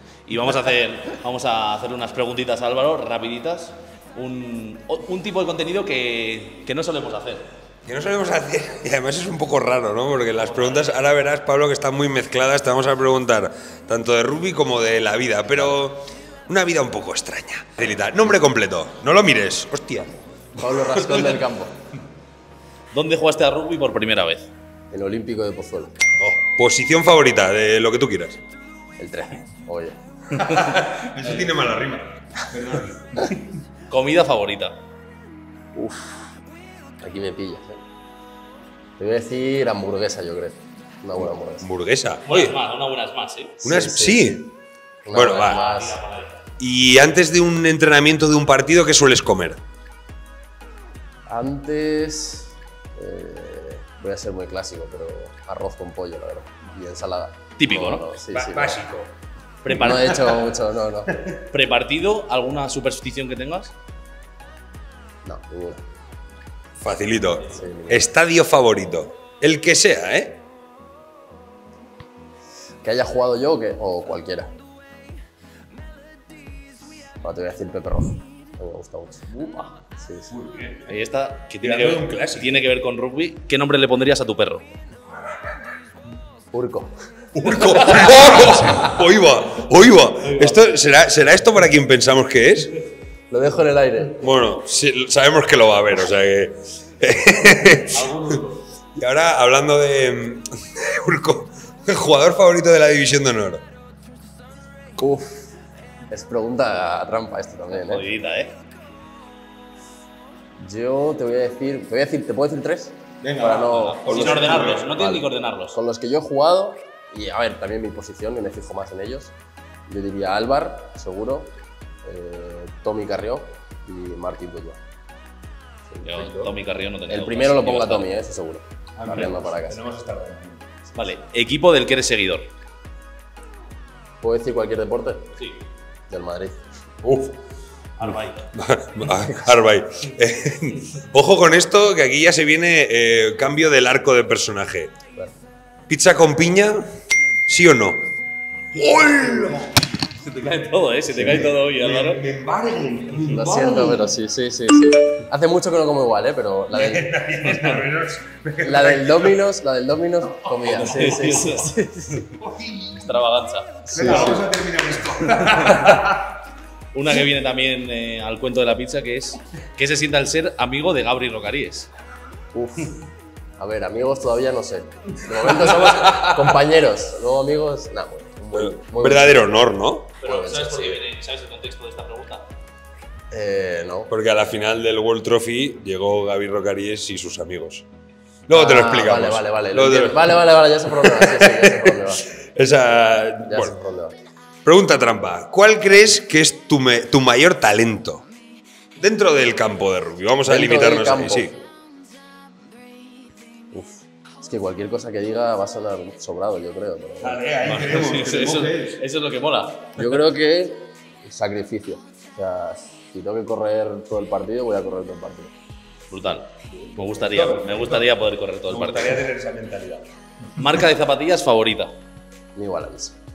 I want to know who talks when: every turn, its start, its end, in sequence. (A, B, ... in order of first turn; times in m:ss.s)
0:00.3-0:07.5 A
0:07.9-0:21.4 B
0:10.4-0:11.0 A
0:15.5-0:15.8 C
0:20.6-0:21.7 C
0:22.9-0:24.5 A
0:24.9-0:26.0 C
0:26.2-0:28.4 B
0:29.0-0:30.0 C
0:30.3-0:33.4 B
0:33.9-0:34.8 A
0:35.7-0:36.3 C
0:37.0-0:37.8 C
0:39.0-0:41.7 C
0:41.2-0:42.6 B
0:42.3-0:43.6 A
0:43.6-0:44.4 C
0:43.6-0:44.5 B
0:45.0-0:46.0 C
0:45.1-0:45.6 B
0:45.4-0:46.4 A
0:46.6-0:49.6 B
0:51.3-0:58.8 C
0:57.6-0:58.0 A
0:58.3-0:59.1 B
0:59.6-1:00.1 A
0:59.7-1:01.2 C
0:59.7-1:00.5 B
1:01.5-1:03.7 A
1:05.2-1:05.8 C
1:06.8-1:10.4 B
1:07.4-1:08.1 C
1:12.8-1:14.5 C
1:17.2-1:20.3 C
1:19.4-1:19.7 A
1:20.3-1:20.9 B
1:20.9-1:24.6 A
1:21.6-1:22.5 B
1:26.5-1:26.9 C
1:27.3-1:32.8 B
1:30.2-1:30.6 A
1:33.3-1:34.3 C
1:34.2-1:38.2 B
1:37.9-1:38.6 A
1:39.0-1:43.6 B
1:45.0-1:45.5 C
1:46.1-1:48.1 C
1:47.8-1:48.6 A
1:50.6-1:59.3 C
1:53.2-1:54.9 B
1:53.5-1:55.8 A
1:59.9-2:01.5 C
2:02.0-2:04.8 C
2:05.9-2:06.5 C
2:06.0-2:08.1 A
2:07.1-2:09.8 C
2:09.0-2:10.6 B
2:10.9-2:12.5 A
2:14.2-2:15.2 C
2:16.1-2:16.6 C
2:17.0-2:17.4 B
2:18.0-2:18.5 A
2:18.5-2:24.9 B
2:25.9-2:26.8 B
2:27.5-2:28.1 B
2:28.7-2:29.8 B
2:30.2-2:32.2 A
2:31.1-2:34.1 B
2:31.1-2:31.5 C
2:33.3-2:37.1 C
2:36.7-2:39.4 B
2:37.4-2:37.8 A
2:38.6-2:42.2 C
2:40.6-2:41.7 A
2:40.7-2:41.5 B
2:42.3-2:43.2 B
2:43.0-2:44.4 A
2:43.9-2:44.4 C
2:43.9-2:46.3 B
2:46.9-2:51.9 A
2:52.5-2:53.0 C
2:53.6-2:59.6 C
2:55.5-2:56.3 B
2:58.5-3:00.2 B
3:00.2-3:02.4 A
3:00.2-3:01.0 C
3:03.3-3:04.1 C
3:04.1-3:07.8 B
3:08.5-3:13.8 B
3:08.5-3:12.3 C
3:13.5-3:14.1 C
3:14.6-3:18.2 B
3:19.0-3:21.6 B
3:20.4-3:21.5 C
3:23.7-3:27.4 C
3:27.2-3:29.0 B
3:27.6-3:30.0 A
3:30.0-3:35.5 C
3:36.1-3:39.2 A
3:36.7-3:38.1 B
3:38.7-3:40.1 B
3:40.6-3:41.9 A
3:42.6-3:43.2 C